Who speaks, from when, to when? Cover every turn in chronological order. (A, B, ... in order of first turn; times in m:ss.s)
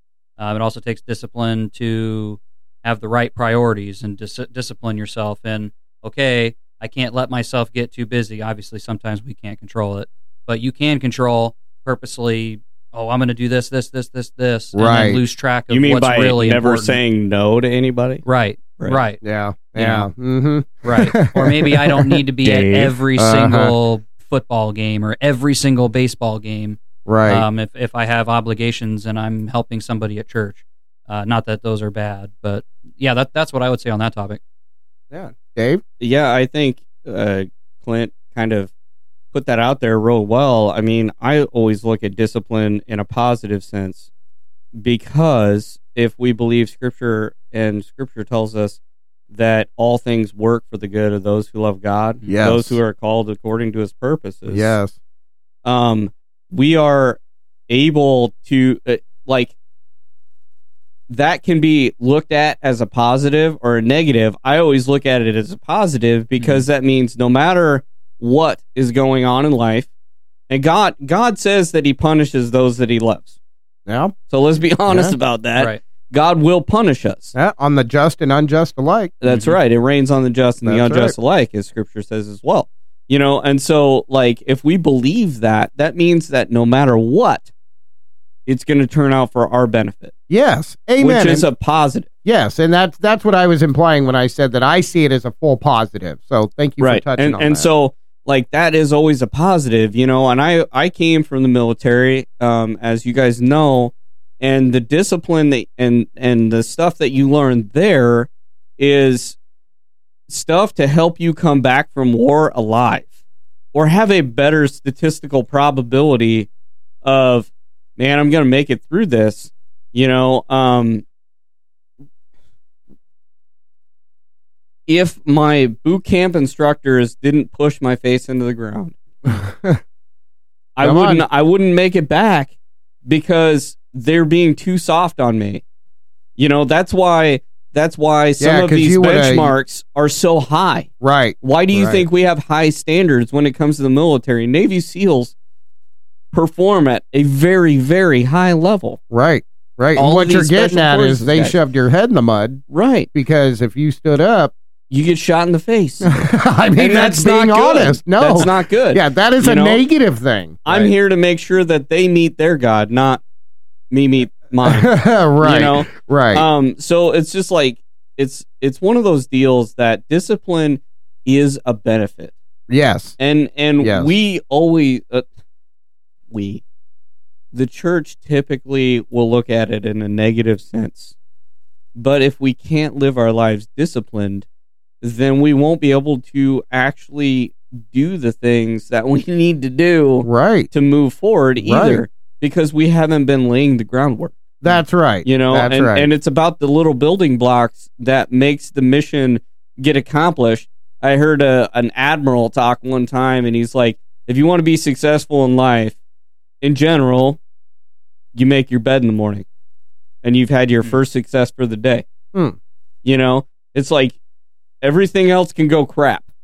0:00.4-0:17.0 A
0:14.7-0:15.2 B
0:15.7-0:18.2 C
0:18.2-0:19.2 A
0:19.2-0:22.2 B
0:19.8-0:20.1 A
0:20.8-0:34.4 A
0:22.4-0:23.0 C
0:23.2-0:23.7 B
0:27.1-0:27.4 B
0:35.1-0:35.8 B
0:36.0-0:38.7 C
0:39.3-0:44.1 C
0:44.8-0:54.8 C
0:52.3-0:52.8 B
0:54.5-0:55.0 B
0:55.6-0:59.6 C
1:01.1-1:09.9 C
1:06.4-1:06.6 A
1:10.5-1:13.4 C
1:13.9-1:14.1 B
1:14.3-1:17.4 C
1:14.9-1:15.2 B
1:17.4-1:19.1 B
1:19.2-1:27.5 C
1:19.3-1:19.6 A
1:20.6-1:21.2 B
1:28.5-1:30.1 C
1:30.3-1:31.5 B
1:31.0-1:32.1 C
1:32.2-1:37.7 B
1:36.8-1:49.4 C
1:50.3-1:53.1 C
1:53.7-1:56.5 C
1:57.0-2:01.0 C
2:04.9-2:09.0 C
2:09.2-2:09.8 B
2:10.8-2:12.6 C
2:10.8-2:11.3 B
2:13.1-2:15.6 C
2:16.4-2:20.9 C
2:18.4-2:19.5 B
2:21.0-2:22.0 B
2:21.4-2:25.3 C
2:26.3-2:29.0 C
2:29.1-2:34.5 B
2:30.0-2:31.6 C
2:32.7-2:33.1 C
2:34.9-2:36.2 C
2:36.0-2:40.9 B
2:36.8-2:39.8 C
2:40.7-2:43.2 C
2:43.9-2:52.4 C
2:44.6-2:46.5 B
2:52.7-2:53.2 B
2:53.2-2:55.3 C
2:53.8-2:54.1 B
2:56.3-2:56.6 C
2:57.5-3:01.1 C
3:02.0-3:04.5 C
3:05.0-3:14.4 C
3:10.2-3:10.7 B
3:11.6-3:12.0 B
3:14.6-3:16.1 B
3:15.2-3:26.0 C
3:26.6-3:27.4 C
3:28.4-3:29.5 C
3:30.2-3:32.0 C
3:33.0-3:34.2 C
3:34.8-3:36.3 C